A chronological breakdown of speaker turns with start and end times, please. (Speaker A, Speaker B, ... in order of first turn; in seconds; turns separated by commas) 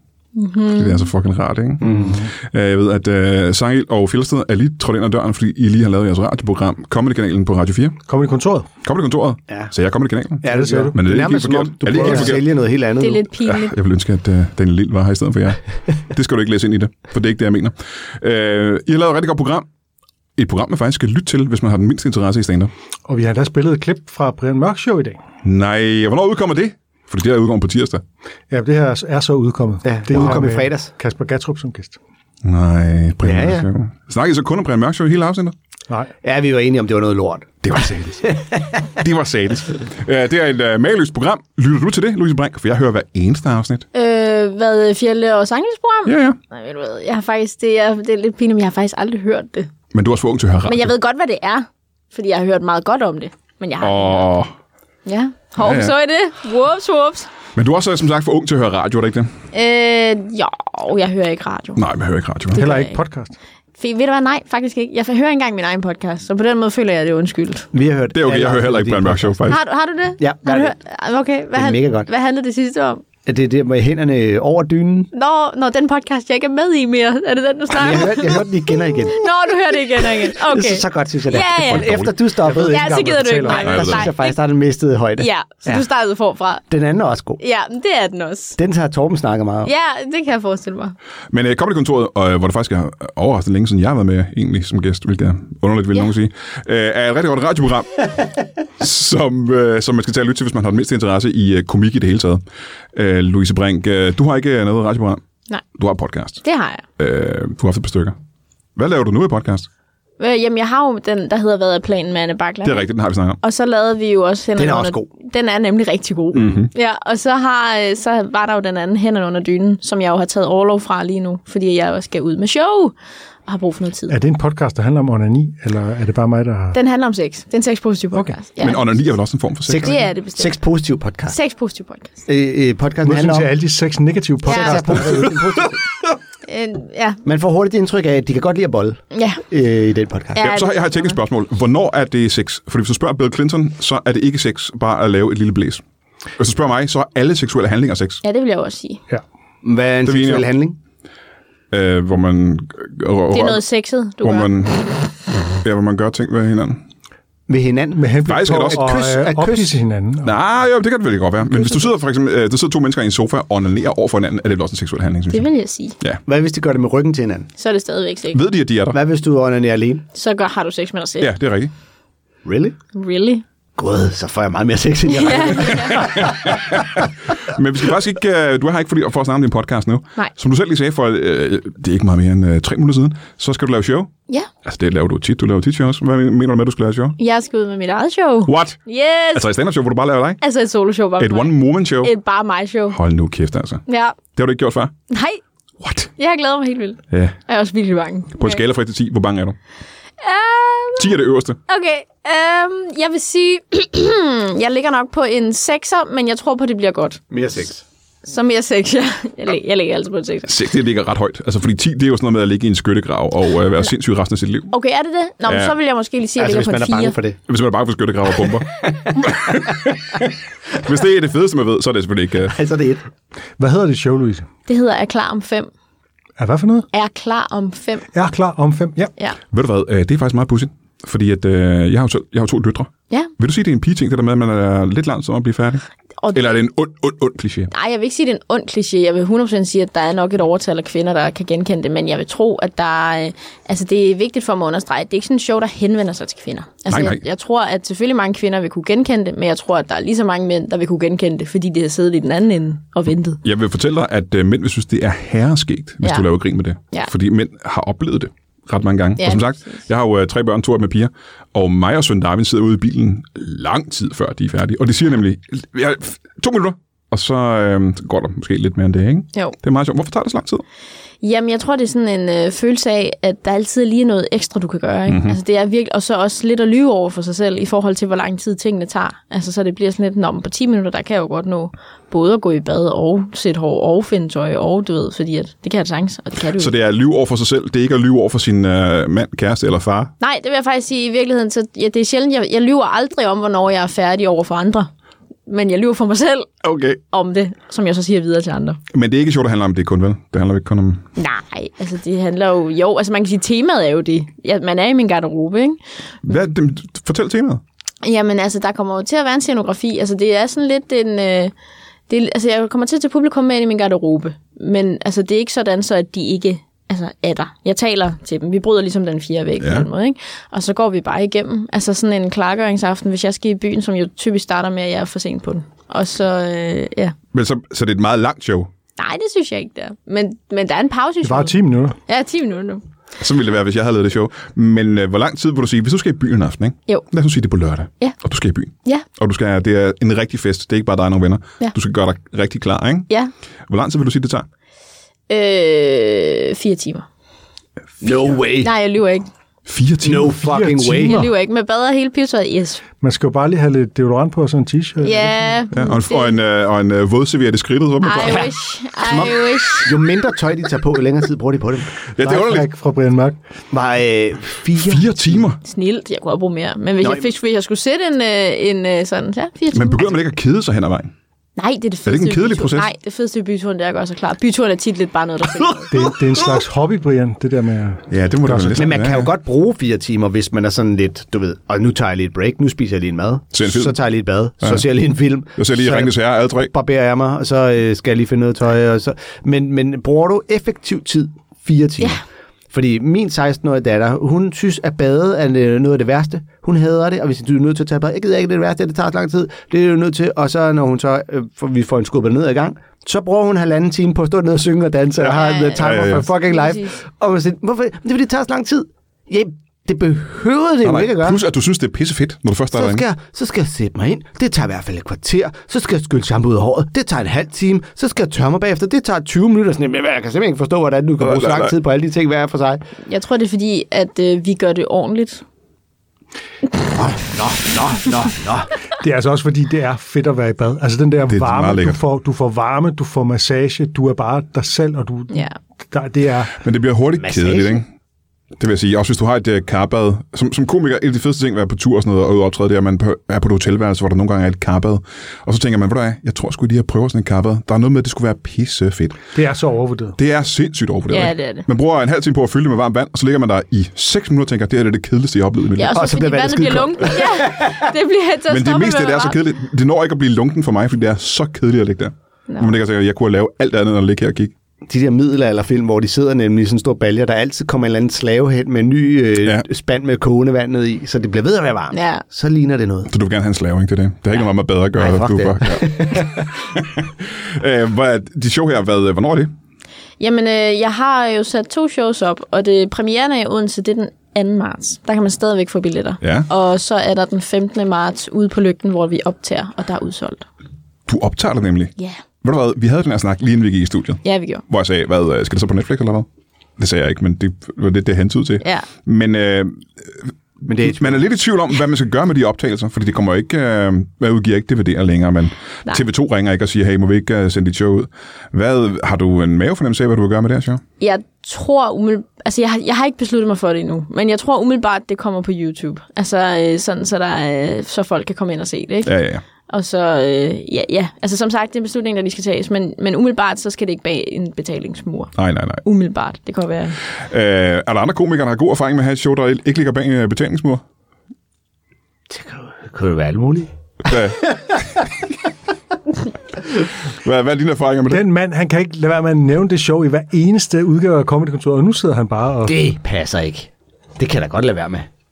Speaker A: 0.3-1.1, Speaker B: 0.7-8.0, Speaker C: 1.8-2.2, Speaker D: 1.8-2.3, Speaker D: 8.1-8.7, Speaker B: 8.8-12.4, Speaker C: 10.4-13.3, Speaker D: 10.4-11.0, Speaker D: 12.0-12.3, Speaker A: 13.0-13.8, Speaker B: 13.5-19.6, Speaker B: 20.4-22.7, Speaker D: 23.1-25.2, Speaker B: 25.4-28.0, Speaker D: 28.5-32.0, Speaker C: 29.8-30.9, Speaker B: 32.4-35.5, Speaker C: 33.2-33.7, Speaker C: 36.2-38.9, Speaker B: 37.6-38.2, Speaker B: 39.0-43.9, Speaker A: 43.9-49.7, Speaker B: 46.1-46.4, Speaker B: 49.9-50.9, Speaker A: 50.6-54.3, Speaker B: 53.8-54.5, Speaker A: 55.1-57.3, Speaker B: 55.6-55.9, Speaker B: 57.6-59.3, Speaker A: 59.5-61.8, Speaker B: 61.8-62.7, Speaker A: 62.5-63.0, Speaker D: 62.5-63.4, Speaker A: 63.8-67.7, Speaker C: 67.7-69.6, Speaker B: 68.1-69.6, Speaker A: 69.5-73.0, Speaker C: 70.2-70.7, Speaker C: 71.5-72.1, Speaker C: 73.3-75.1, Speaker A: 75.1-81.9, Speaker C: 77.7-79.2, Speaker C: 80.0-85.8, Speaker B: 81.6-82.1, Speaker D: 82.4-83.9, Speaker A: 82.6-84.4, Speaker B: 83.6-84.1, Speaker A: 85.2-86.7, Speaker C: 86.7-87.4, Speaker A: 87.4-88.6, Speaker C: 88.6-89.7, Speaker A: 89.6-91.0, Speaker B: 91.3-102.4, Speaker B: 102.9-105.2, Speaker B: 105.8-106.4, Speaker A: 106.4-106.8, Speaker B: 107.0-108.2, Speaker B: 108.8-109.7, Speaker A: 110.2-112.9, Speaker B: 112.6-113.4, Speaker A: 113.4-122.9, Speaker C: 114.6-115.1, Speaker B: 116.3-116.7, Speaker A: 123.5-124.2, Speaker D: 124.1-126.8, Speaker A: 126.7-128.9, Speaker B: 128.6-130.0, Speaker C: 129.7-131.3, Speaker A: 129.8-130.6, Speaker A: 131.3-132.2, Speaker C: 132.3-133.5, Speaker D: 133.0-135.4, Speaker A: 134.4-135.0, Speaker C: 134.4-135.8, Speaker A: 136.5-137.2, Speaker C: 137.2-140.4, Speaker A: 139.1-139.4, Speaker A: 140.4-141.1, Speaker B: 140.4-145.8, Speaker B: 146.4-148.2, Speaker A: 148.2-149.0, Speaker C: 149.6-150.8, Speaker B: 150.1-150.5, Speaker B: 151.7-153.6, Speaker A: 153.3-154.5, Speaker B: 154.2-154.8, Speaker B: 155.6-156.8, Speaker C: 157.5-159.8, Speaker D: 158.0-160.3, Speaker B: 158.2-159.0, Speaker B: 160.2-165.5, Speaker A: 165.3-166.0, Speaker C: 166.3-167.5, Speaker A: 167.6-168.4, Speaker B: 168.3-169.0, Speaker C: 168.9-170.1, Speaker A: 170.1-171.3, Speaker B: 171.2-171.7, Speaker C: 172.4-172.8, Speaker A: 172.9-173.4, Speaker C: 173.8-176.6, Speaker A: 175.1-176.1, Speaker B: 176.0-184.1, Speaker B: 184.7-187.2, Speaker A: 187.2-189.5, Speaker B: 188.5-188.8, Speaker B: 189.3-190.4, Speaker A: 190.4-193.0, Speaker B: 191.2-192.1, Speaker B: 192.9-193.8, Speaker A: 193.9-194.2, Speaker B: 194.4-194.9, Speaker A: 195.1-195.4, Speaker B: 195.8-196.1, Speaker A: 196.2-198.6, Speaker B: 197.1-197.4, Speaker B: 198.4-199.6, Speaker A: 200.2-201.2, Speaker B: 201.0-201.6, Speaker A: 201.7-207.2, Speaker C: 207.3-207.8, Speaker A: 208.2-210.5, Speaker B: 210.5-214.7, Speaker A: 214.7-217.2, Speaker B: 215.5-215.7, Speaker C: 216.4-217.4, Speaker B: 217.5-222.6, Speaker C: 222.5-223.1, Speaker D: 223.6-224.5, Speaker A: 224.7-225.7, Speaker D: 226.4-226.9, Speaker A: 226.9-228.1, Speaker D: 228.1-229.1, Speaker B: 229.5-237.7, Speaker A: 236.2-236.6, Speaker A: 237.7-253.4, Speaker B: 246.9-247.2, Speaker B: 253.4-270.6, Speaker A: 259.2-259.8, Speaker A: 271.2-286.7, Speaker B: 275.1-275.4, Speaker B: 286.6-290.1, Speaker A: 290.2-294.9, Speaker A: 295.5-296.5, Speaker B: 296.6-297.0, Speaker A: 297.1-298.8, Speaker B: 298.9-301.0, Speaker A: 301.2-305.8, Speaker B: 306.2-307.6, Speaker A: 308.0-311.5, Speaker A: 312.1-327.1, Speaker B: 319.6-319.9, Speaker B: 327.3-328.7, Speaker A: 329.0-332.8, Speaker D: 331.2-332.0, Speaker B: 333.2-343.1, Speaker B: 343.7-344.5, Speaker A: 345.3-347.1, Speaker C: 348.0-348.7, Speaker A: 348.6-349.3, Speaker B: 349.7-350.3, Speaker C: 350.0-351.3, Speaker D: 350.4-351.3, Speaker A: 350.9-352.8, Speaker D: 353.0-355.5, Speaker A: 355.0-356.4, Speaker B: 355.7-358.5, Speaker A: 358.0-359.9, Speaker C: 359.0-362.0, Speaker B: 362.1-362.7, Speaker D: 362.2-363.4, Speaker C: 363.7-365.5, Speaker B: 364.7-365.6, Speaker A: 365.6-370.1, Speaker C: 367.0-367.3, Speaker B: 369.7-371.1, Speaker A: 371.6-375.9, Speaker B: 372.1-372.9, Speaker D: 375.9-379.0, Speaker B: 375.9-376.5, Speaker B: 378.1-379.3, Speaker C: 378.8-392.2, Speaker B: 383.5-384.0, Speaker B: 384.6-384.9, Speaker B: 385.6-386.7, Speaker C: 392.7-411.4, Speaker B: 405.3-406.3, Speaker A: 405.3-407.0, Speaker B: 410.8-413.0, Speaker C: 412.8-422.8, Speaker B: 421.2-421.7, Speaker A: 423.1-425.4, Speaker C: 426.9-428.7, Speaker D: 429.0-435.4, Speaker B: 431.3-432.0, Speaker A: 435.3-435.6, Speaker D: 435.9-436.6, Speaker B: 436.6-437.9, Speaker C: 437.2-437.8, Speaker B: 438.6-449.2, Speaker D: 449.4-450.2, Speaker B: 450.2-456.0, Speaker A: 451.1-451.6, Speaker A: 455.8-459.4, Speaker C: 455.9-457.9, Speaker B: 458.5-464.5, Speaker A: 462.5-462.7, Speaker C: 464.9-473.1, Speaker A: 471.9-472.2, Speaker B: 473.1-479.5, Speaker C: 475.0-476.5, Speaker A: 480.2-490.5, Speaker B: 486.2-486.5, Speaker B: 491.1-496.3, Speaker A: 494.2-494.6, Speaker B: 496.8-500.1, Speaker A: 498.6-498.9, Speaker C: 500.6-501.2, Speaker B: 500.8-510.8, Speaker A: 511.0-519.1, Speaker B: 519.1-519.4, Speaker A: 519.7-525.3, Speaker B: 525.4-525.8, Speaker A: 525.8-527.0, Speaker B: 527.3-530.8, Speaker C: 532.3-534.1, Speaker B: 534.1-535.0, Speaker B: 537.2-538.3, Speaker D: 538.1-542.8, Speaker C: 542.6-545.1